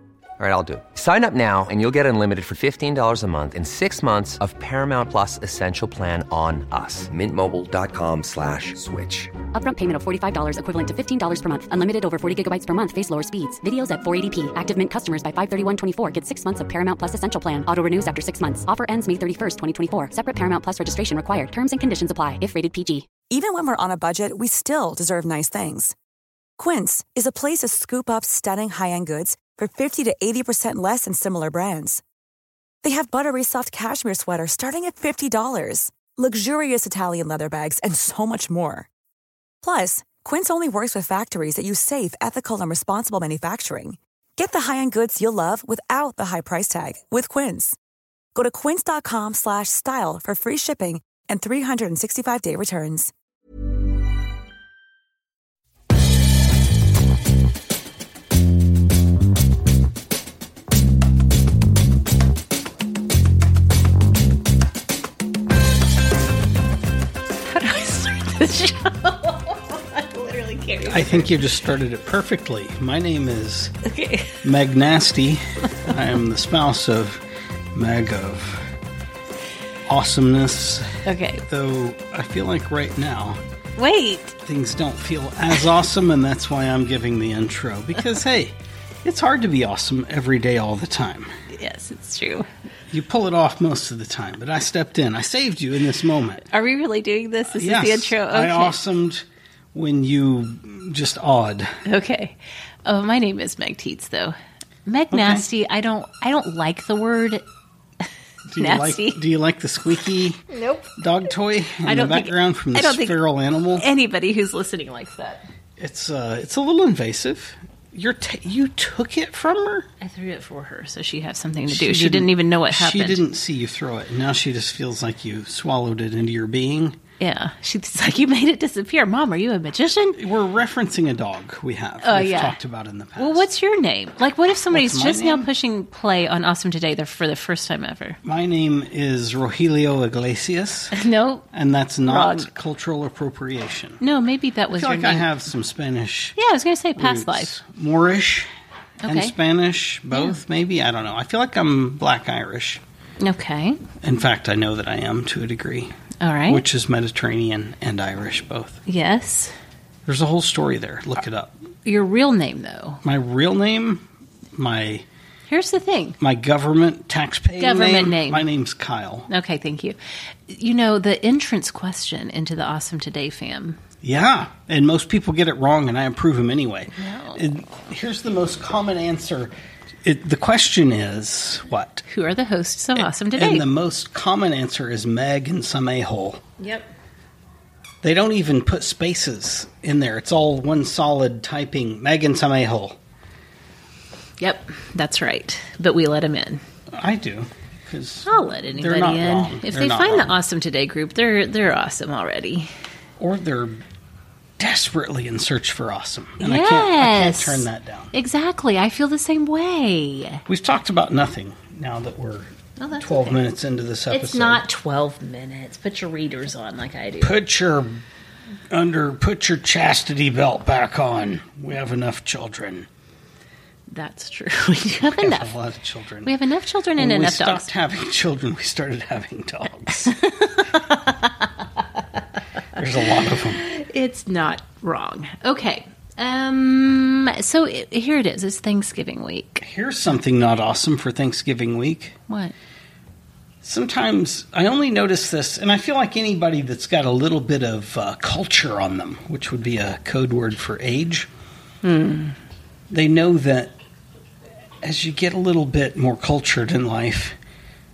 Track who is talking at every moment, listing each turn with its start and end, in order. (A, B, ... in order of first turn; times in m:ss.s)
0:00.4-0:09.3 A
0:09.5-0:23.1 B
0:23.3-0:25.9 C
0:26.6-0:32.0 C
0:32.8-0:38.9 C
0:39.6-0:47.8 C
0:48.3-0:53.1 C
1:07.5-1:11.4 D
1:10.9-1:13.7 E
1:13.8-1:14.4 D
1:14.4-1:17.2 E
1:17.7-1:18.6 E
1:19.9-1:20.9 E
1:21.0-1:21.4 D
1:21.5-1:23.4 E
1:23.8-1:24.4 D
1:24.4-1:31.3 E
1:31.5-1:32.5 D
1:32.9-1:36.4 E
1:36.5-1:38.8 D
1:37.5-1:41.7 E
1:41.8-1:47.4 D
1:45.1-1:45.4 E
1:48.5-1:50.4 E
1:48.6-1:49.2 D
1:50.5-1:51.3 D
1:51.0-1:53.8 E
1:51.8-1:53.2 D
1:53.7-1:55.4 D
1:55.8-1:59.9 E
2:00.0-2:03.2 D
2:01.7-2:07.0 E
2:07.2-2:10.2 D
2:10.2-2:13.5 E
2:12.0-2:12.6 D
2:13.2-2:18.2 D
2:14.7-2:15.5 E
2:18.2-2:20.9 E
2:20.9-2:21.5 D
2:21.5-2:24.0 E
2:22.0-2:22.5 D
2:24.0-2:25.3 D
2:24.7-2:26.4 E
2:26.4-2:27.5 D
2:27.0-2:28.5 E
2:29.0-2:29.3 D
2:29.0-2:32.8 E
2:30.1-2:30.4 D
2:33.2-2:33.8 D
2:34.0-2:35.9 E
2:36.2-2:36.6 D
2:36.5-2:38.8 E
2:38.9-2:39.5 D
2:40.0-2:41.6 E
2:41.8-2:43.0 D
2:43.0-2:44.0 E
2:44.6-2:45.0 E
2:45.5-2:46.2 D
2:46.2-2:49.3 E
2:47.6-2:48.4 D
2:49.3-2:50.0 D
2:50.5-2:53.8 D
2:54.0-2:59.5 E
2:56.9-2:57.4 D
3:00.0-3:02.0 E
3:02.1-3:03.6 D
3:03.0-3:06.4 E
3:06.6-3:06.9 D
3:08.0-3:13.0 E
3:14.4-3:16.6 D
3:16.9-3:20.3 E
3:18.2-3:22.7 D
3:23.2-3:23.8 E
3:24.6-3:28.1 E
3:26.4-3:30.4 D
3:30.5-3:34.6 E
3:32.8-3:33.4 D
3:34.1-3:37.3 D
3:37.2-3:38.0 E
3:38.7-3:42.9 E
3:43.9-3:45.5 D
3:45.1-3:46.3 E
3:46.2-3:47.7 D
3:47.0-3:50.1 E
3:50.2-3:51.2 D
3:52.8-3:53.6 E
3:53.6-3:59.6 D
3:59.6-4:02.2 E
4:02.3-4:02.5 D
4:03.6-4:11.3 E
4:11.8-4:12.4 D
4:12.9-4:13.7 E
4:14.8-4:17.4 E